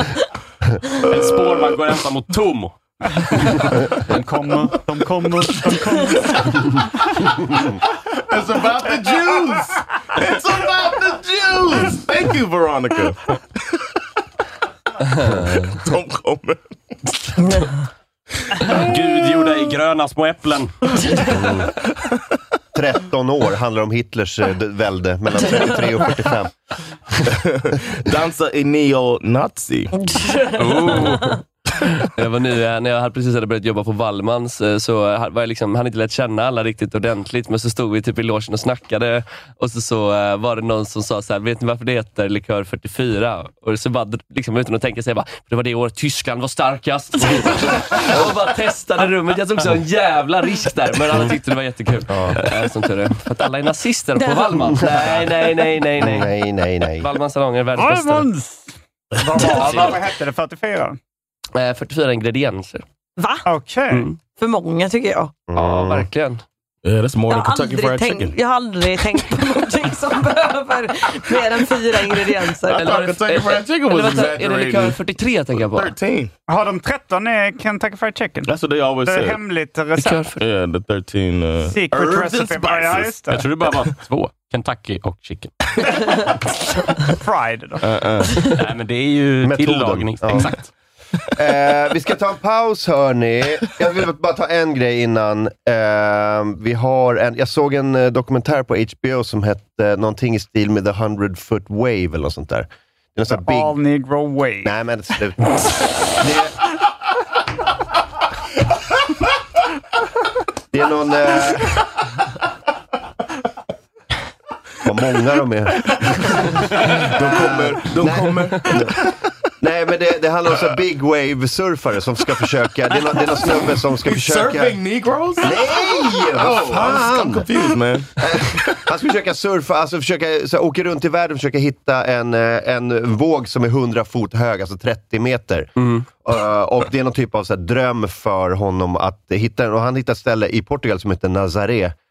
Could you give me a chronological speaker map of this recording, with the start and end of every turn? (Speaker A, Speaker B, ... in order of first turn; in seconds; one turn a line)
Speaker A: 1.0-1.8
Speaker B: 1.1-3.7
Speaker C: 3.2-7.2
Speaker A: 8.3-13.8
Speaker A: 15.2-16.6
Speaker D: 15.2-15.7
Speaker B: 18.7-20.9
Speaker E: 21.0-21.4
Speaker F: 21.3-21.7
Speaker F: 22.7-26.5
Speaker A: 27.4-29.9
Speaker E: 30.0-31.4
Speaker B: 30.6-31.2
Speaker D: 30.9-31.2
Speaker D: 32.1-56.3
Speaker F: 52.1-52.4
Speaker E: 54.2-54.8
Speaker F: 55.0-55.2
Speaker F: 56.0-57.1
Speaker D: 57.0-58.3
Speaker C: 57.8-61.0
Speaker D: 59.4-60.1
Speaker D: 61.5-62.8
Speaker E: 63.2-63.5
Speaker C: 63.5-64.1
Speaker D: 63.9-64.2
Speaker E: 64.4-65.4
Speaker F: 65.5-66.1
Speaker D: 65.5-66.4
Speaker A: 66.8-68.3
Speaker E: 67.3-72.9
Speaker A: 72.7-75.0
Speaker D: 72.7-75.9
Speaker A: 75.5-76.3
Speaker C: 76.5-80.3
Speaker A: 78.5-79.4
Speaker D: 80.0-80.4
Speaker A: 80.4-83.1
Speaker C: 81.7-83.5
Speaker B: 83.3-85.5
Speaker C: 87.1-87.9
Speaker A: 87.8-88.4
Speaker B: 88.6-90.7
Speaker F: 89.4-90.5
Speaker F: 91.3-103.8
Speaker C: 103.3-104.7
Speaker F: 104.6-105.5
Speaker F: 106.2-106.5
Speaker F: 110.7-111.8
Speaker F: 114.8-116.3
Speaker A: 116.8-119.2
Speaker F: 117.1-118.9
Speaker F: 119.6-124.8
Speaker A: 124.0-128.8
Speaker F: 125.4-127.5
Speaker F: 128.2-135.7
Speaker D: 135.8-136.1
Speaker F: 136.2-141.9